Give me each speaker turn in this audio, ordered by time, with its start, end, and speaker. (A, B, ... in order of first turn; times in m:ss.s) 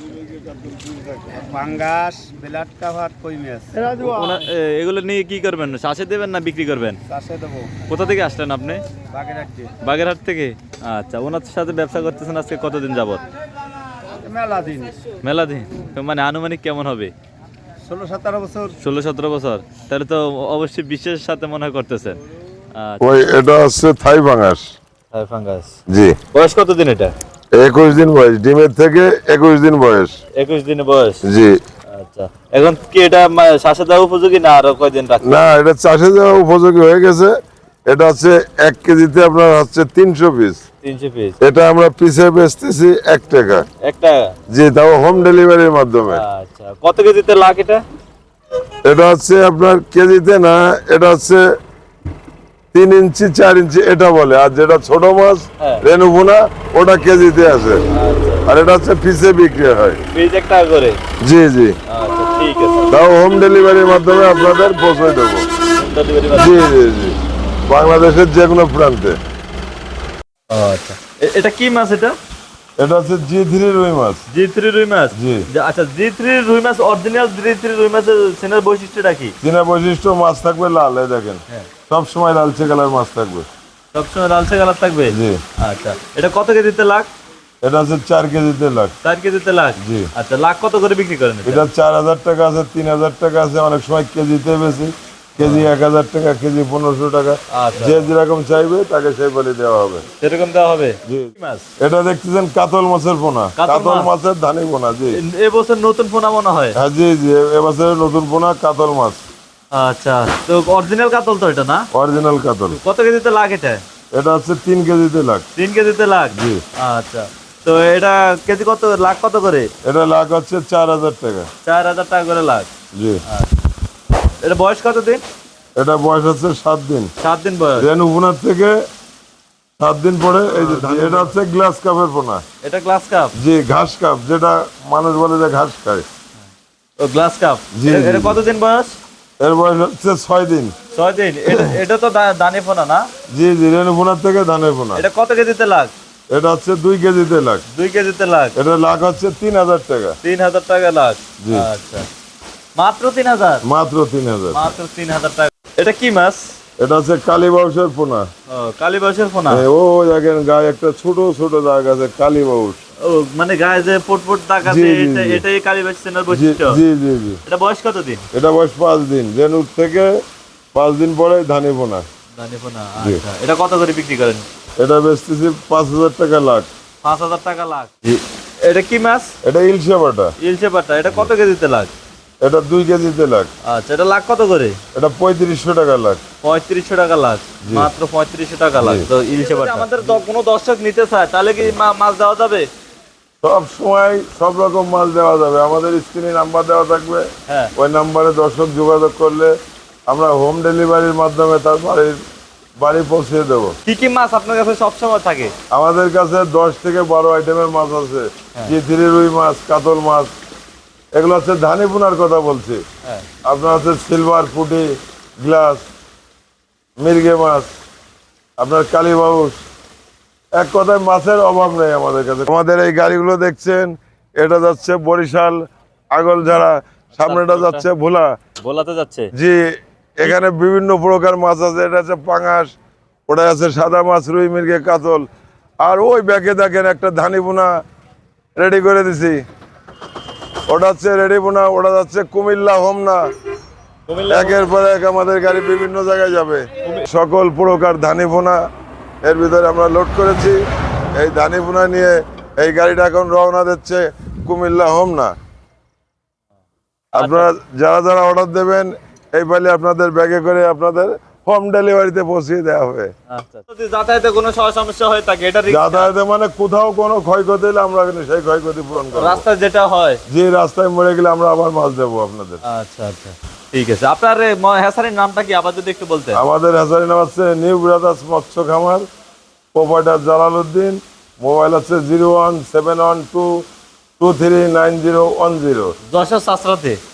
0:01.0-0:03.9 A
0:03.9-0:07.0 B
0:07.1-0:07.8 A
0:07.8-0:08.8 B
0:09.1-0:09.8 A
0:09.7-0:13.2 B
0:14.2-0:15.0 A
0:15.2-0:17.1 B
0:17.8-0:18.8 A
0:18.7-0:22.2 B
0:22.7-0:23.3 B
0:23.0-0:24.7 C
0:25.1-0:25.8 B
0:25.9-0:26.2 C
0:26.3-0:27.1 B
0:27.5-0:30.2 C
0:30.3-0:31.2 B
0:31.2-0:31.6 C
0:31.9-0:35.4 B
0:35.2-0:37.4 C
0:37.9-0:40.6 C
0:40.8-0:41.4 B
0:41.4-0:43.7 C
0:43.8-0:44.4 B
0:44.5-0:46.2 C
0:46.1-0:47.8 B
0:48.8-0:51.5 C
0:52.7-0:57.8 C
0:57.9-0:58.5 B
0:58.5-1:00.0 C
1:00.1-1:01.0 B
1:01.2-1:01.8 C
1:01.9-1:02.9 B
1:02.9-1:05.5 C
1:05.7-1:06.6 B
1:06.3-1:09.2 C
1:10.5-1:12.2 B
1:12.8-1:14.2 C
1:14.3-1:19.4 B
1:15.1-1:15.5 C
1:19.4-1:23.5 C
1:23.9-1:27.1 B
1:25.1-1:25.4 C
1:27.6-1:28.9 C
1:29.0-1:31.7 B
1:29.8-1:30.1 C
1:31.4-1:40.0 C
1:35.4-1:35.7 B
1:37.5-1:38.1 B
1:40.2-1:41.7 B
1:41.1-1:45.2 C
1:43.6-1:44.1 B
1:45.1-1:46.8 B
1:46.8-1:49.2 C
1:49.7-1:51.9 B
1:51.9-1:52.8 C
1:52.7-1:53.8 B
1:54.1-1:55.5 C
1:55.6-1:59.7 B
1:56.4-1:56.6 C
1:59.8-2:01.5 C
2:01.6-2:02.7 B
2:03.0-2:03.2 C
2:03.3-2:03.6 B
2:04.4-2:05.2 B
2:05.8-2:07.1 C
2:07.2-2:07.9 B
2:07.8-2:08.8 C
2:09.8-2:12.4 C
2:10.5-2:11.3 B
2:12.6-2:13.3 B
2:13.4-2:16.0 C
2:17.0-2:19.0 B
2:17.7-2:18.4 C
2:19.4-2:20.8 C
2:20.9-2:23.1 B
2:23.3-2:25.0 C
2:24.9-2:25.9 B
2:26.3-2:27.6 C
2:27.7-2:28.6 B
2:28.6-2:30.2 C
2:30.2-2:32.1 B
2:31.4-2:31.7 C
2:32.8-2:33.6 B
2:33.6-2:34.6 C
2:34.5-2:36.6 B
2:36.8-2:38.3 C
2:38.5-2:39.7 B
2:39.5-2:42.8 C
2:43.0-2:46.8 B
2:44.6-2:45.4 C
2:46.3-2:47.4 C
2:47.5-2:48.2 B
2:48.3-2:50.2 C
2:50.7-2:52.1 C
2:52.4-2:54.5 B
2:54.8-2:56.7 C
2:57.0-2:59.4 B
2:59.4-3:00.3 C
3:00.4-3:01.9 B
3:02.4-3:03.5 C
3:03.6-3:04.8 B
3:04.9-3:06.2 C
3:06.4-3:12.7 B
3:07.6-3:07.9 C
3:08.8-3:09.1 C
3:13.4-3:19.6 C
3:17.5-3:17.7 B
3:20.1-3:22.2 C
3:22.8-3:23.8 C
3:23.8-3:25.5 B
3:25.7-3:30.3 C
3:31.2-3:32.8 C
3:33.4-3:35.9 C
3:37.0-3:37.7 C
3:38.6-3:39.6 C
3:40.6-3:48.3 C
3:47.2-3:47.9 B
3:48.6-3:49.3 B
3:49.4-3:52.8 C
3:53.3-3:55.3 C
3:55.8-3:57.7 C
3:58.6-3:59.4 C
4:00.7-4:03.2 C
4:04.1-4:04.6 B
4:04.3-4:08.6 C
4:09.2-4:15.3 C
4:17.1-4:23.1 C
4:17.1-4:17.5 B
4:23.3-4:26.1 B
4:25.7-4:29.4 C
4:29.1-4:30.2 B
4:30.3-4:32.6 C
4:32.6-4:36.4 B
4:36.3-4:39.0 C
4:39.7-4:43.7 C
4:44.2-4:46.0 C
4:46.1-4:47.0 B